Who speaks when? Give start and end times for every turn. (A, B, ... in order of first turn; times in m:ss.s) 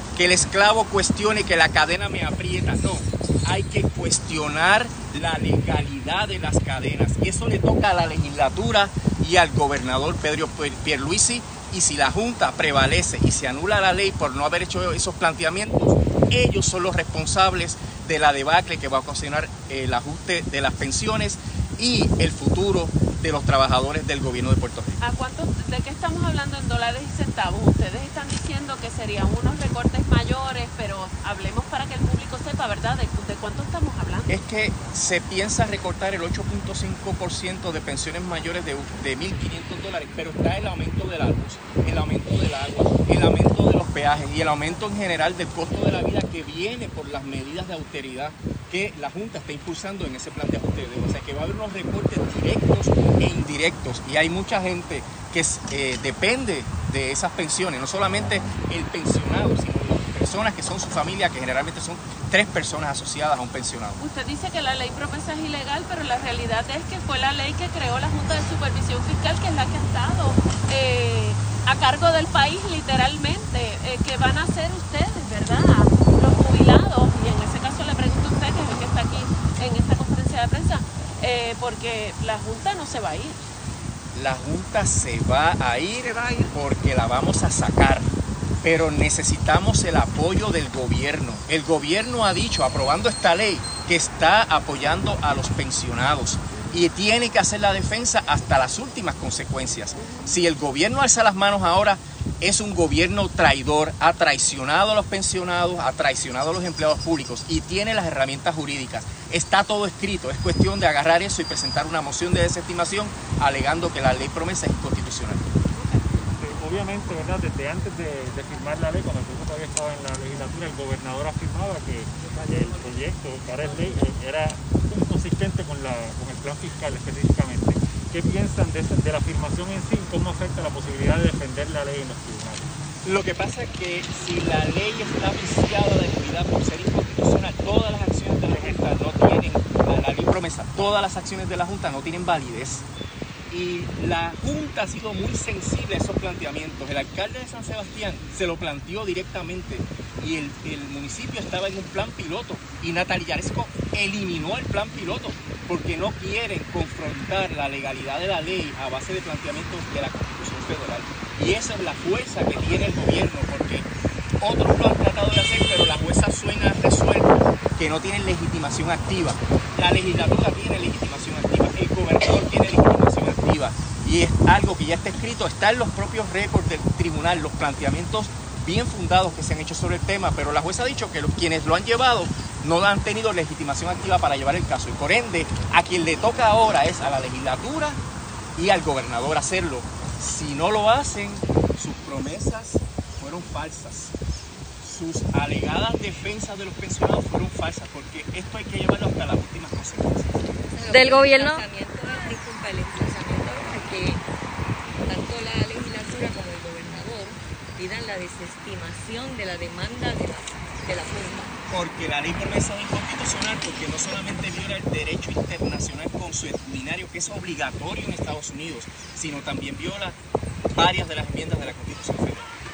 0:00.2-0:24.9 A
0:25.0-0:34.4 B
0:34.3-1:04.0 A
1:04.0-1:23.4 B
1:24.1-1:28.1 A
1:28.6-1:55.4 A
1:56.3-2:12.6 C
2:13.0-2:22.9 A
2:23.5-2:43.9 A
2:44.4-3:08.0 A
3:08.6-3:14.1 A
3:14.8-3:20.5 A
3:20.7-3:24.2 D
3:25.0-3:31.5 D
3:31.7-3:40.2 A
3:40.7-3:42.5 A